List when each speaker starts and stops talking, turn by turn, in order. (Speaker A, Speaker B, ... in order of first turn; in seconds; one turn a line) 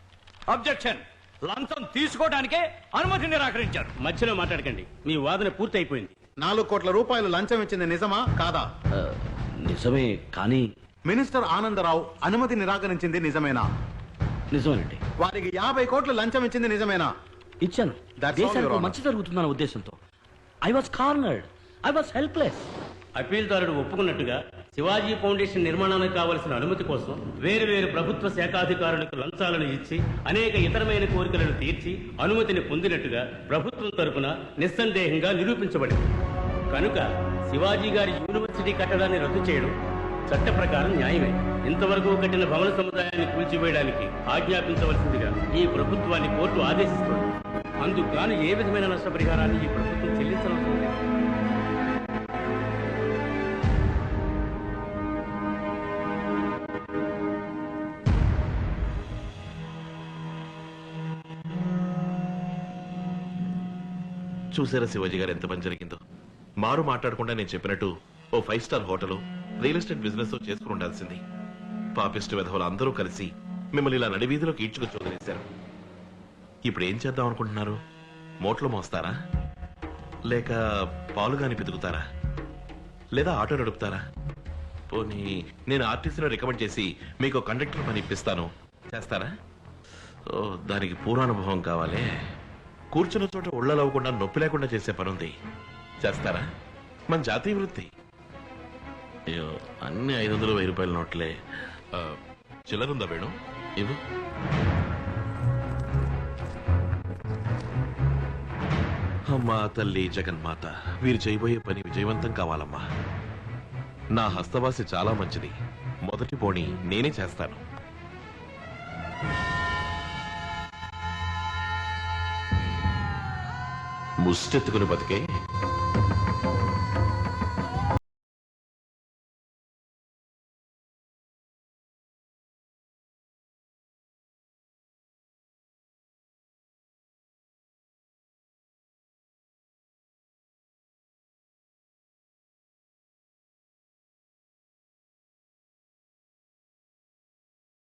Speaker A: 0.5-3.9
Speaker B: 4.0-6.1
Speaker C: 6.4-8.7
Speaker D: 8.9-10.7
Speaker C: 11.1-13.7
Speaker D: 14.5-15.0
Speaker C: 15.2-17.1
Speaker D: 17.6-20.0
Speaker C: 18.2-19.0
Speaker D: 20.6-22.7
Speaker B: 23.2-36.1
Speaker B: 36.7-39.7
Speaker B: 40.3-47.3
Speaker B: 47.8-50.9
Speaker E: 64.5-66.0
Speaker E: 66.6-71.2
Speaker E: 72.0-75.4
Speaker E: 76.7-77.8
Speaker E: 78.4-79.2
Speaker E: 80.3-80.6
Speaker E: 81.2-82.0
Speaker E: 83.2-84.0
Speaker E: 84.9-89.3
Speaker E: 90.3-92.1
Speaker E: 92.9-95.3
Speaker E: 96.0-96.4
Speaker E: 97.1-97.9
Speaker E: 99.3-101.3
Speaker E: 102.7-104.0
Speaker E: 109.3-112.8
Speaker E: 114.1-115.5
Speaker E: 116.1-117.6
Speaker E: 124.2-125.2